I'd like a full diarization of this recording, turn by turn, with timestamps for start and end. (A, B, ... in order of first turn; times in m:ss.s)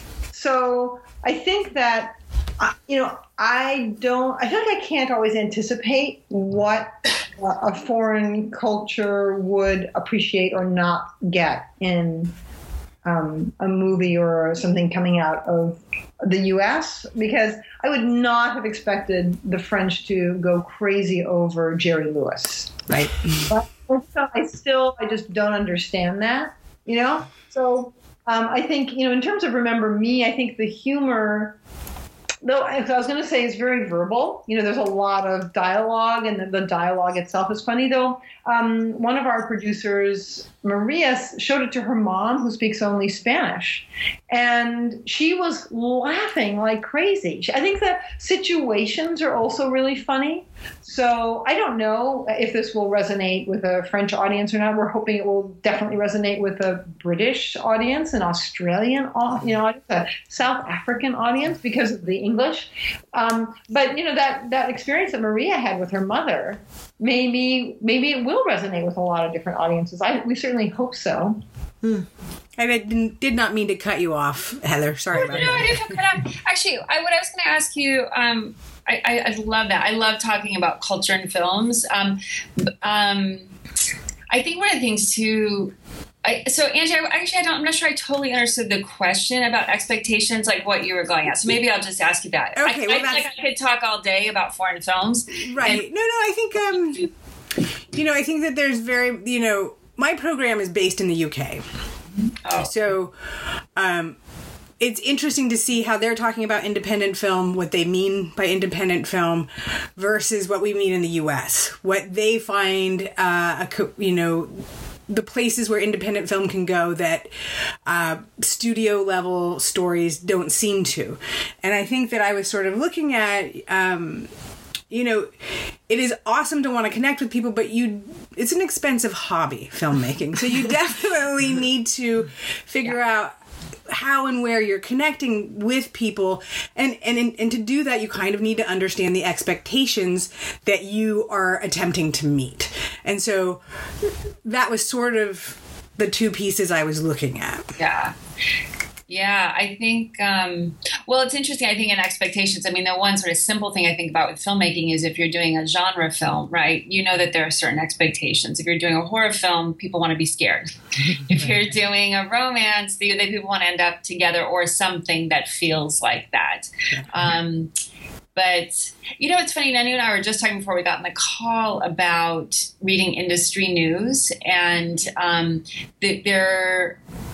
0:00.3-0:12.3 A
0:13.0-0:22.9 A
0:22.9-0:23.5 B
0:23.5-0:31.6 A
0:32.4-1:11.4 A
1:12.6-1:15.9 B
1:15.1-1:23.5 C
1:24.3-1:35.8 C
1:32.6-1:33.3 B
1:35.5-1:37.1 B
1:37.9-1:41.6 B
1:42.4-1:42.7 C
1:42.6-1:43.1 B
1:43.8-1:44.2 B
1:44.8-1:57.3 B
1:57.8-2:04.3 B
2:04.9-2:13.3 B
2:13.9-2:23.6 B
2:24.4-2:27.6 B
2:27.8-2:28.1 C
2:29.1-2:47.7 C
2:48.3-2:57.0 C